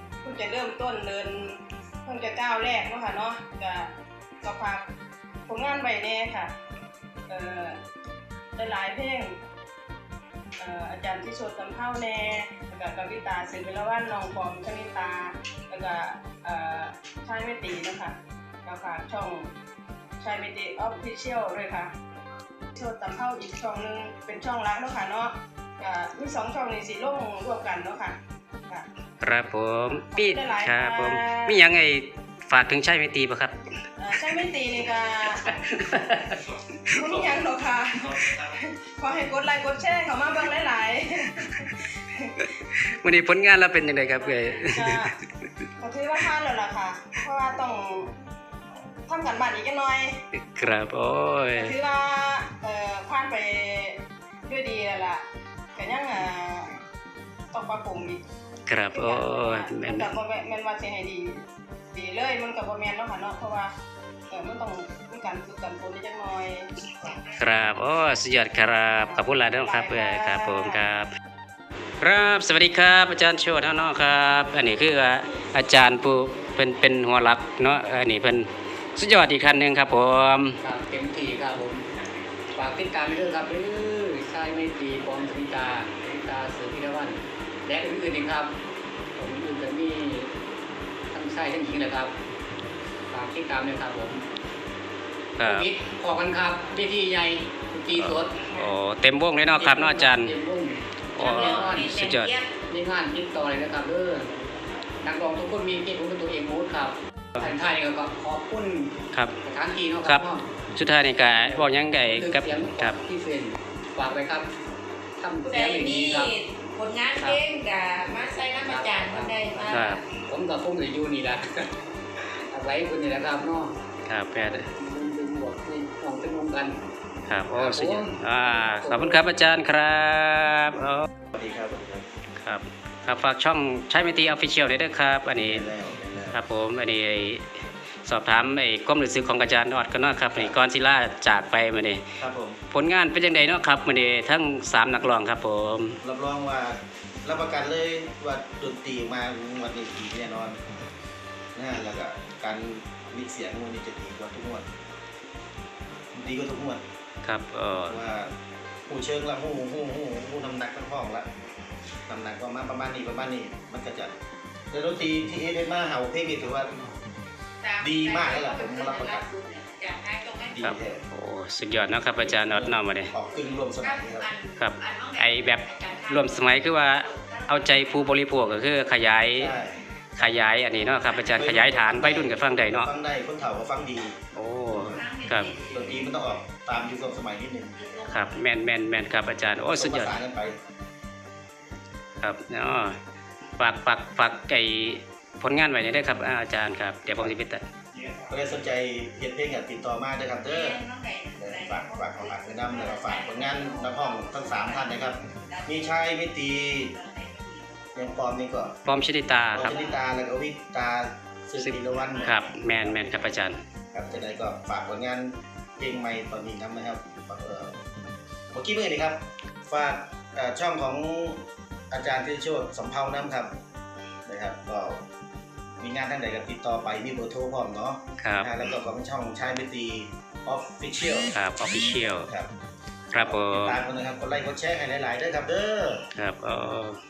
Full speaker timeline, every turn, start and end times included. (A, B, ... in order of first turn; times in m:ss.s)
0:00.2-0:04.8 A
0:05.5-0:06.5 A
0:07.3-0:07.8 A
0:08.6-0:09.3 A
0:10.6-0:19.5 A
0:20.2-0:21.9 A
0:22.7-0:28.2 A
0:29.2-0:33.5 B
0:29.9-0:31.6 A
0:34.0-0:35.6 A
0:35.4-0:37.3 B
0:36.8-0:42.5 A
0:42.7-0:45.1 B
0:44.6-0:45.1 A
0:45.8-0:48.1 A
0:49.1-0:50.2 A
0:50.5-0:51.7 B
0:51.5-0:55.2 A
0:55.7-0:56.7 A
0:57.5-0:58.2 A
0:58.7-1:00.1 B
0:58.9-1:01.4 A
1:01.9-1:03.7 A
1:04.3-1:06.7 A
1:07.3-1:11.1 B
1:09.0-1:10.8 A
1:12.0-1:20.6 B
1:20.6-1:21.8 C
1:22.5-1:28.5 C
1:29.2-1:30.3 C
1:31.1-1:32.1 C
1:33.1-1:34.2 C
1:35.4-1:35.7 B
1:35.4-1:38.5 C
1:38.0-1:40.3 B
1:39.5-1:42.0 C
1:41.1-1:42.3 B
1:41.2-1:42.5 D
1:42.7-1:44.3 C
1:45.0-1:50.5 C
1:50.0-1:53.0 B
1:51.3-1:54.5 C
1:55.2-1:56.4 C
1:55.4-2:00.0 D
1:57.1-1:57.4 C
1:58.6-2:01.7 C
1:59.7-2:00.0 B
2:02.5-2:03.8 C
2:04.1-2:04.7 B
2:04.4-2:06.8 C
2:07.3-2:11.1 B
2:07.5-2:09.2 C
2:11.3-2:12.0 E
2:12.4-2:15.7 B
2:15.5-2:16.4 E
2:16.3-2:17.4 B
2:18.0-2:22.0 B
2:22.2-2:22.6 E
2:22.7-2:26.0 B
2:26.0-2:30.6 E
2:31.5-2:34.7 E
2:36.1-2:36.8 E
2:37.2-2:38.0 B
2:37.9-2:38.3 E
2:38.9-2:41.3 E
2:42.1-2:44.1 E
2:44.7-2:46.8 E
2:47.6-2:50.6 D
2:47.8-2:49.2 E
2:50.5-2:51.0 E
2:50.6-2:53.1 B
2:52.2-2:54.3 E
2:53.8-2:58.1 D
2:54.6-2:59.5 B
2:59.4-3:00.3 E
3:00.2-3:02.9 B
3:00.8-3:01.5 D
3:01.3-3:04.2 E
3:04.3-3:05.5 B
3:04.7-3:05.0 E
3:04.8-3:06.1 D
3:05.7-3:07.9 E
3:07.8-3:08.2 D
3:08.1-3:10.2 B
3:09.7-3:10.6 E
3:12.2-3:13.0 B
3:13.6-3:17.6 B
3:18.3-3:20.8 E
3:20.4-3:26.0 D
3:21.4-3:26.9 E
3:26.7-3:27.8 D
3:27.9-3:28.8 E
3:28.8-3:29.8 B
3:29.5-3:33.3 E
3:29.6-3:30.0 D
3:31.6-3:33.6 B
3:32.1-3:32.4 D
3:33.9-3:37.8 E
3:38.5-3:43.5 E
3:44.2-3:45.0 E
3:45.8-3:52.5 E
3:48.2-3:48.5 B
3:51.3-3:52.3 B
3:53.1-3:53.8 B
3:53.2-3:56.0 E
3:56.1-3:57.0 B